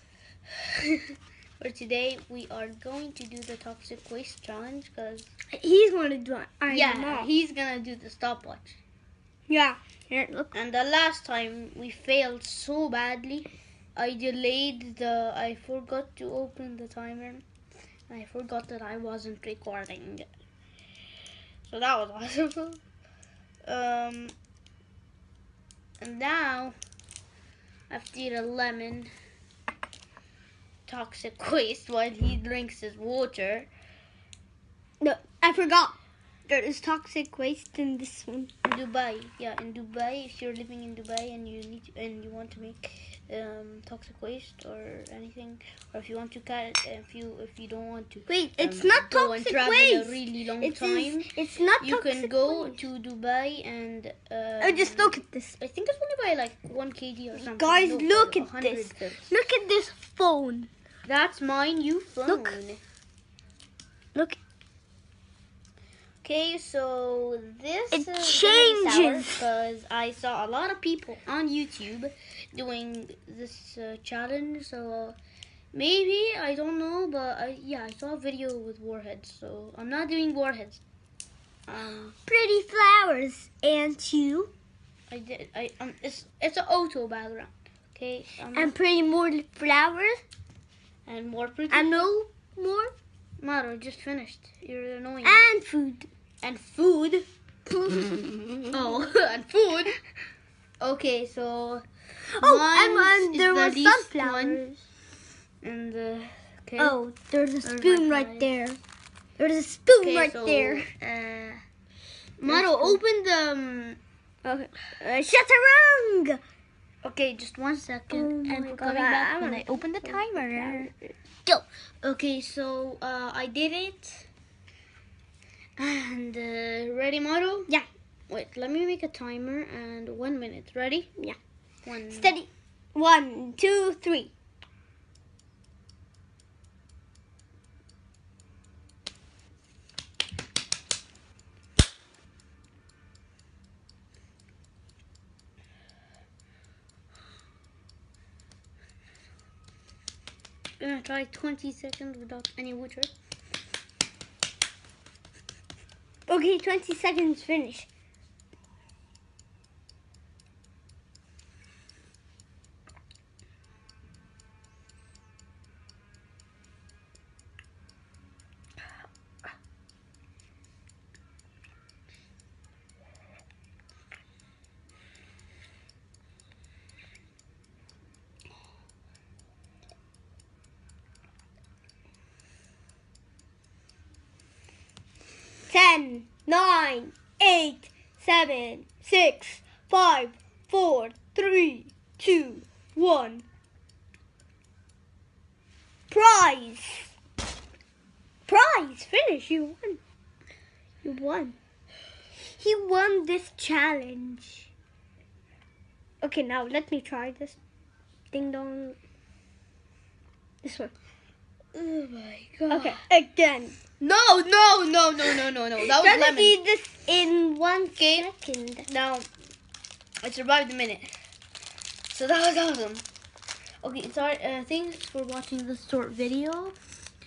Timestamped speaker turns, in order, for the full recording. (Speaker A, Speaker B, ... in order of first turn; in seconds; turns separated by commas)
Speaker A: 0.8-1.0, Speaker A: 1.6-5.3, Speaker B: 5.5-7.3, Speaker A: 6.7-8.8, Speaker B: 9.5-10.5, Speaker A: 10.5-17.4, Speaker A: 18.1-20.2, Speaker A: 21.6-22.8, Speaker A: 23.6-24.3, Speaker A: 26.0-26.8, Speaker A: 27.9-29.1, Speaker A: 30.9-33.7, Speaker B: 35.0-38.5, Speaker A: 38.6-59.3, Speaker B: 48.3-52.8, Speaker B: 54.6-55.6, Speaker B: 57.3-60.7, Speaker A: 61.1-62.8, Speaker B: 62.2-62.6, Speaker A: 66.2-75.2, Speaker B: 67.9-69.4, Speaker A: 75.7-80.8, Speaker A: 81.7-82.2, Speaker B: 82.2-84.5, Speaker A: 85.1-88.7, Speaker B: 88.5-90.2, Speaker A: 91.0-92.1, Speaker B: 91.7-92.9, Speaker A: 93.4-95.4, Speaker B: 95.2-96.1, Speaker A: 96.4-97.3, Speaker B: 97.7-98.6, Speaker A: 98.7-100.0, Speaker A: 100.8-101.8, Speaker B: 102.3-104.8, Speaker A: 102.4-104.6, Speaker A: 105.6-107.0, Speaker B: 106.8-108.8, Speaker A: 107.6-108.5, Speaker B: 109.4-110.9, Speaker A: 110.0-111.6, Speaker A: 112.4-114.0, Speaker B: 112.5-113.0, Speaker B: 114.4-116.4, Speaker A: 117.0-120.9, Speaker B: 118.1-120.9, Speaker A: 121.4-124.3, Speaker A: 125.8-127.7, Speaker A: 128.3-131.1, Speaker A: 131.8-132.3, Speaker B: 132.1-134.3, Speaker A: 150.8-153.1, Speaker B: 156.3-157.9, Speaker B: 185.7-193.4, Speaker B: 196.1-197.1, Speaker B: 198.5-200.0, Speaker B: 201.0-201.6, Speaker B: 202.6-204.7, Speaker B: 206.2-207.6, Speaker B: 208.3-209.0, Speaker B: 210.6-210.9, Speaker A: 211.7-213.0, Speaker B: 212.7-213.8, Speaker A: 214.0-216.6, Speaker B: 215.8-218.9, Speaker A: 218.0-218.3, Speaker A: 218.8-219.3, Speaker A: 220.2-221.1, Speaker A: 222.1-223.0, Speaker A: 223.8-226.8